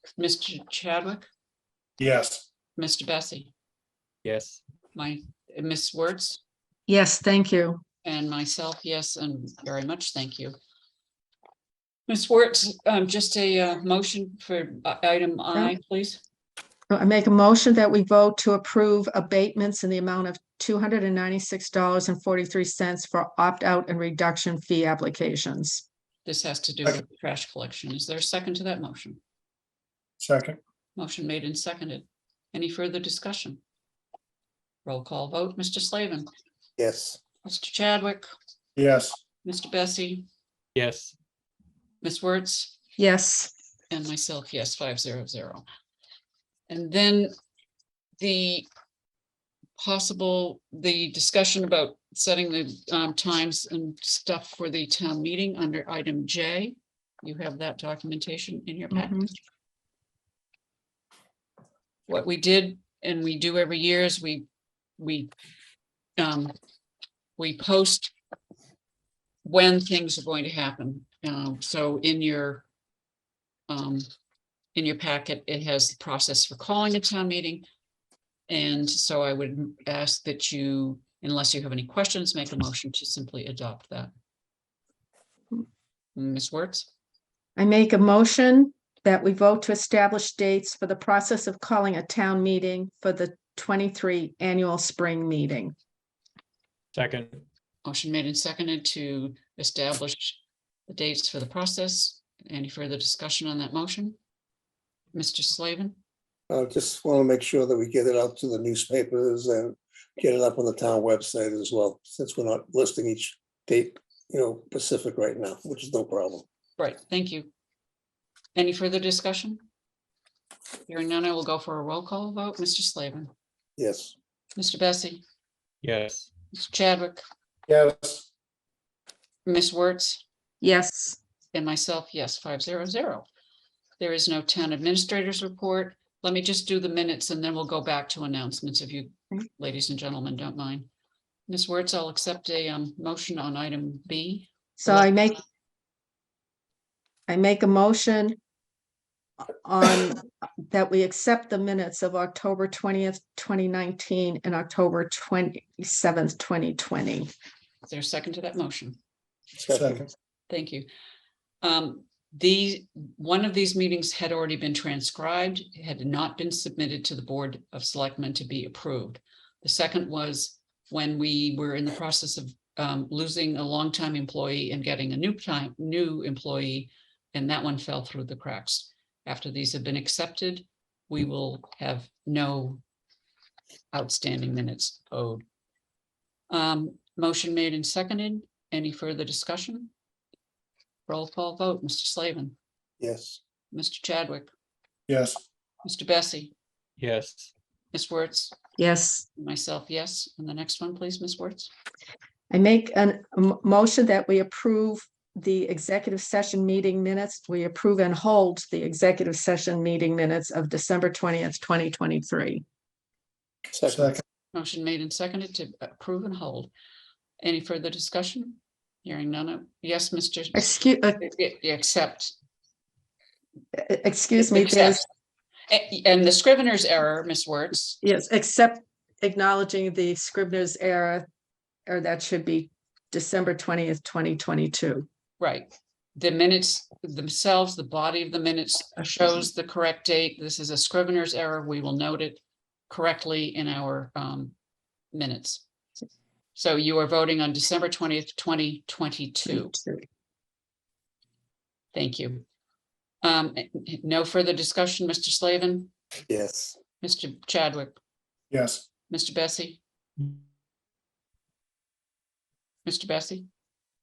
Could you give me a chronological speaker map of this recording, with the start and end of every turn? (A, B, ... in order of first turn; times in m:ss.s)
0:00.2-0:01.3 A
0:02.0-0:02.4 B
0:02.8-0:03.5 A
0:04.2-0:04.6 C
0:05.0-0:06.4 A
0:06.9-0:07.8 D
0:08.0-0:10.6 A
0:12.1-0:16.2 A
0:16.9-0:25.8 D
0:26.2-0:29.2 A
0:30.2-0:30.6 B
0:31.0-0:33.6 A
0:34.8-0:36.3 A
0:36.8-0:37.2 E
0:37.4-0:38.3 A
0:38.8-0:39.2 B
0:39.4-0:40.3 A
0:40.8-0:41.1 C
0:42.0-0:42.7 A
0:43.0-0:43.5 D
0:43.9-0:45.6 A
0:46.7-0:47.3 A
0:48.2-0:48.7 A
0:49.8-0:59.2 A
0:58.9-0:59.3 D
1:02.1-1:04.4 A
1:05.0-1:05.3 A
1:06.2-1:06.5 A
1:07.4-1:08.1 A
1:09.4-1:12.7 A
1:13.7-1:14.1 A
1:14.8-1:17.7 A
1:18.5-1:24.1 A
1:26.2-1:26.9 A
1:27.6-1:35.8 D
1:36.9-1:37.4 C
1:37.8-1:44.2 A
1:45.1-1:46.0 A
1:46.5-1:56.4 E
1:56.8-1:57.5 A
1:58.6-1:59.6 A
2:00.9-2:03.3 A
2:03.8-2:04.1 E
2:04.6-2:05.2 A
2:05.8-2:06.3 C
2:06.5-2:07.2 A
2:07.7-2:08.3 B
2:09.5-2:10.2 A
2:10.6-2:11.2 D
2:11.5-2:13.2 A
2:14.0-2:20.9 A
2:21.5-2:25.1 A
2:24.8-2:25.4 D
2:27.3-2:28.4 D
2:29.6-2:37.3 D
2:37.9-2:39.0 A
2:39.5-2:40.1 E
2:39.8-2:40.1 B
2:40.5-2:40.9 A
2:41.6-3:02.8 A
3:03.9-3:05.4 A
3:06.5-3:09.9 A
3:11.1-3:12.6 A
3:13.0-3:13.4 E
3:13.7-3:14.5 A
3:15.1-3:15.4 B
3:15.8-3:16.5 A
3:17.0-3:17.5 C
3:17.9-3:18.6 A
3:18.8-3:19.2 D
3:19.4-3:21.7 A
3:22.5-3:32.6 D
3:33.7-3:34.2 E
3:34.5-3:36.7 A
3:37.4-3:42.3 A
3:40.5-3:41.2 D
3:43.8-3:45.0 D
3:44.4-3:45.1 A
3:45.7-3:48.0 A
3:48.0-3:51.3 D
3:51.9-3:55.1 D
3:55.4-4:04.5 A
4:05.1-4:05.6 A
4:06.6-4:09.8 A
4:09.5-4:10.1 D
4:11.9-4:12.4 A
4:13.2-4:15.9 A
4:16.3-4:16.8 E
4:17.0-4:18.0 A
4:18.5-4:18.9 B
4:19.1-4:19.8 A
4:22.8-4:23.5 A